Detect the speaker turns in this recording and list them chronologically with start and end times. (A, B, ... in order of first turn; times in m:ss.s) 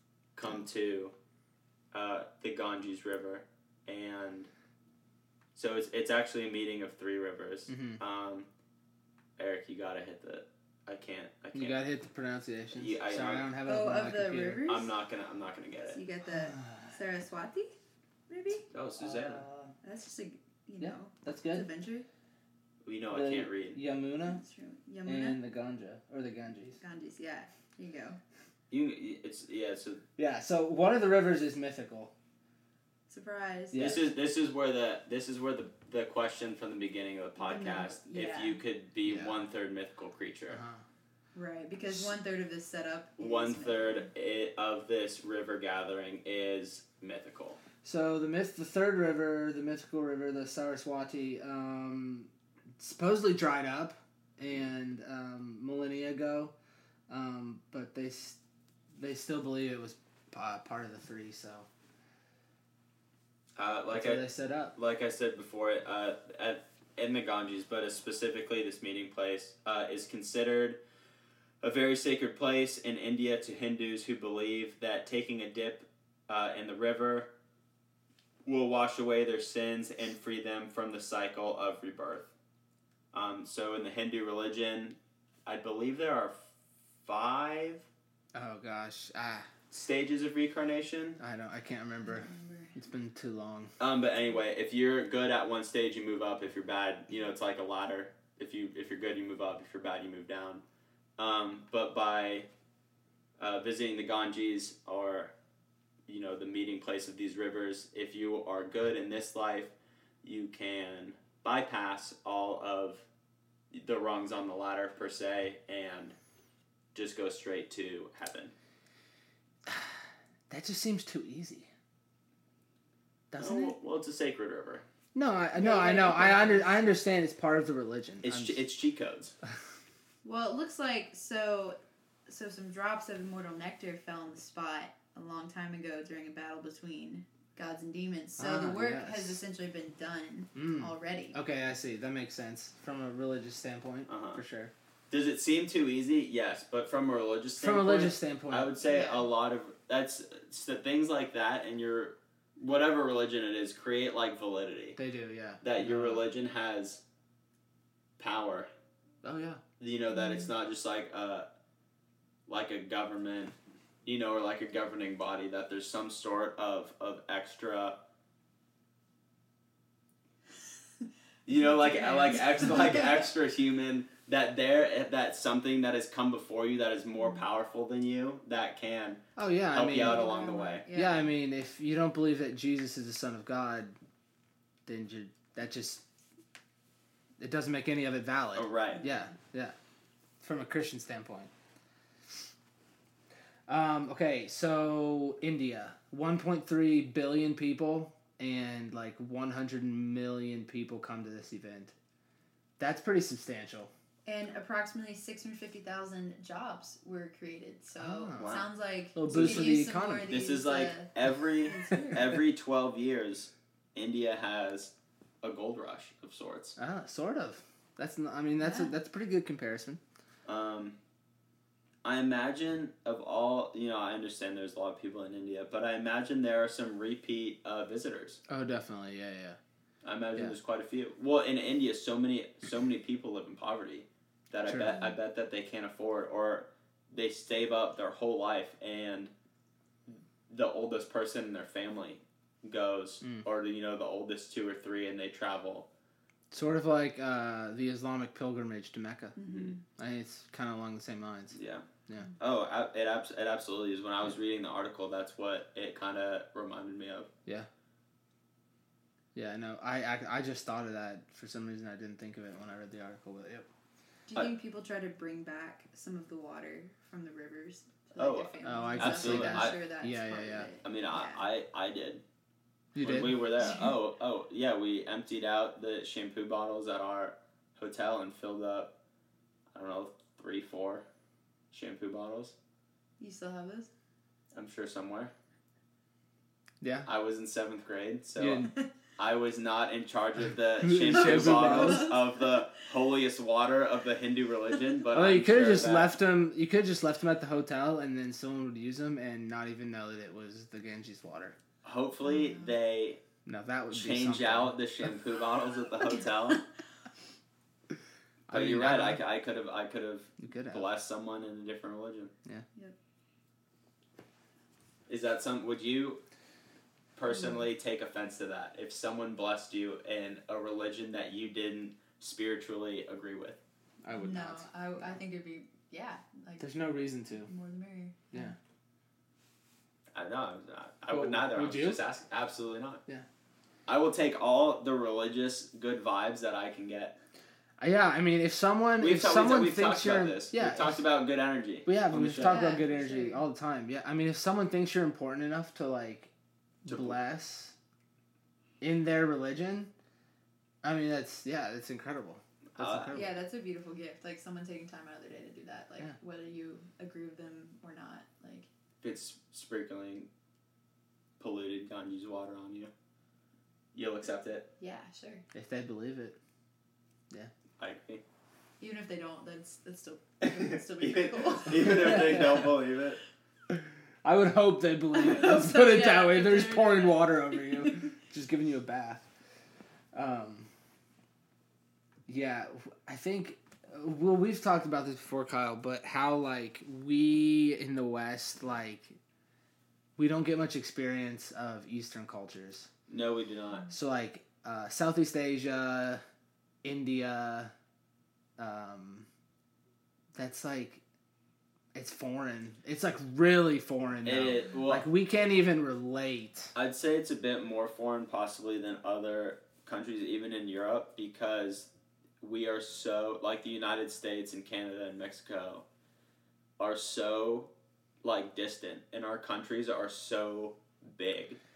0:00.3-0:01.1 A
0:01.9-0:04.5 A
0:05.5-0:08.5 A
0:07.7-0:08.0 B
0:09.4-0:11.8 A
0:11.5-0:14.6 B
0:12.7-0:13.5 A
0:13.6-0:14.9 C
0:14.7-0:16.0 A
0:15.9-0:17.7 C
0:16.3-0:16.9 B
0:18.3-0:18.6 C
0:18.7-0:19.4 A
0:19.0-0:19.7 B
0:19.8-0:22.1 C
0:20.8-0:21.7 B
0:22.8-0:23.8 A
0:23.1-0:24.4 B
0:24.2-0:25.4 C
0:25.0-0:26.8 B
0:26.8-0:28.2 C
0:28.7-0:30.0 A
0:30.2-0:32.1 B
0:33.1-0:33.8 C
0:33.7-0:34.1 B
0:33.7-0:40.6 A
0:37.4-0:38.6 C
0:39.0-0:39.4 B
0:40.5-0:40.8 B
0:41.3-0:44.1 C
0:43.2-0:47.6 A
0:47.8-0:56.5 B
0:57.1-0:58.4 B
0:59.0-1:01.7 B
1:03.6-1:04.2 A
1:03.9-1:04.7 B
1:04.7-1:10.8 A
1:11.6-1:17.3 A
1:18.4-1:22.3 A
1:23.1-1:26.4 A
1:27.0-1:27.8 A
1:28.3-1:29.5 B
1:29.7-1:31.2 A
1:31.2-1:33.7 B
1:32.0-1:32.8 C
1:33.8-1:40.6 A
1:41.2-1:42.5 A
1:43.4-1:45.3 A
1:46.1-1:53.0 A
1:53.7-1:56.1 A
1:56.9-1:58.5 A
1:59.6-2:01.7 B
2:03.3-2:03.8 B
2:03.4-2:04.8 A
2:05.1-2:08.6 B
2:05.5-2:06.8 C
2:08.2-2:09.3 A
2:10.2-2:21.4 C
2:18.4-2:19.4 B
2:20.5-2:24.7 B
2:24.1-2:24.4 A
2:25.1-2:35.0 A
2:27.6-2:28.7 B
2:28.8-2:29.2 C
2:35.0-2:36.2 B
2:35.6-2:37.0 A
2:38.2-2:38.7 A
2:39.2-2:39.6 B
2:39.8-2:41.4 A
2:42.5-2:48.0 A
2:51.5-3:00.8 A
2:51.5-2:53.2 C
2:59.4-3:00.3 B
3:00.0-3:01.3 C
3:00.9-3:04.0 B
3:04.8-3:06.0 B
3:07.4-3:09.7 B
3:08.5-3:09.0 A
3:09.0-3:09.3 C
3:10.4-3:11.5 B
3:13.7-3:21.9 B
3:22.8-3:23.9 B
3:24.2-3:32.4 C
3:28.0-3:28.6 B
3:28.4-3:28.7 A
3:29.1-3:30.3 B
3:29.3-3:29.7 A
3:30.3-3:36.8 A
3:36.8-3:40.0 B
3:38.6-3:38.9 C
3:40.4-3:41.0 A
3:42.0-3:48.4 A
3:48.5-3:49.6 B
3:50.0-3:59.3 A
3:54.7-3:55.0 B
4:00.1-4:05.9 A
4:06.5-4:11.6 B
4:09.4-4:09.8 C
4:09.4-4:09.7 A
4:11.5-4:11.8 A
4:12.4-4:17.3 A
4:19.3-4:23.7 B
4:24.3-4:31.4 C
4:28.2-4:29.8 A
4:28.6-4:30.7 B
4:30.8-4:32.2 A
4:32.9-4:33.7 B
4:33.0-4:38.9 A
4:33.6-4:33.9 C
4:39.7-4:41.0 A
4:41.7-4:42.5 A
4:43.2-4:43.9 C
4:44.5-4:45.3 A
4:46.8-4:47.1 B
4:47.0-4:56.1 A
4:48.4-4:48.7 B
4:50.8-4:52.1 B
4:51.1-4:52.4 C
4:55.1-5:01.6 B
5:01.8-5:03.2 A
5:02.2-5:02.7 C
5:03.4-5:04.7 B
5:03.9-5:06.6 A
5:08.5-5:09.2 B
5:08.5-5:12.3 A
5:10.4-5:10.9 B
5:15.1-5:16.2 A
5:17.2-5:23.6 A
5:24.0-5:24.7 B
5:24.1-5:28.5 C
5:26.6-5:27.5 B
5:30.1-5:33.0 A
5:31.1-5:32.0 B
5:33.9-5:37.2 A
5:37.8-5:41.0 B
5:39.0-5:42.6 A
5:41.8-5:46.3 B
5:42.4-5:43.4 C
5:46.8-5:47.8 B
5:46.8-5:47.2 A
5:48.8-5:49.9 B
5:50.8-5:53.3 B
5:52.8-5:53.2 A
5:53.1-5:58.7 C
5:59.0-6:00.3 A
6:01.4-6:02.9 A
6:03.9-6:04.7 A
6:04.8-6:05.4 C
6:05.5-6:06.4 B
6:07.8-6:08.2 A
6:08.8-6:12.4 C
6:10.4-6:13.2 A
6:11.9-6:12.7 B
6:13.7-6:19.3 B
6:15.1-6:18.1 C
6:20.1-6:20.7 B
6:22.3-6:29.2 B
6:30.2-6:32.9 B
6:33.1-6:33.9 A
6:33.9-6:36.2 B
6:36.8-6:37.7 B
6:38.6-6:39.3 B
6:40.3-6:41.0 B
6:41.9-6:46.7 B
6:44.2-6:45.0 A
6:46.7-6:51.9 A
6:52.4-6:55.8 A
6:56.8-6:57.7 A
6:58.2-7:01.6 A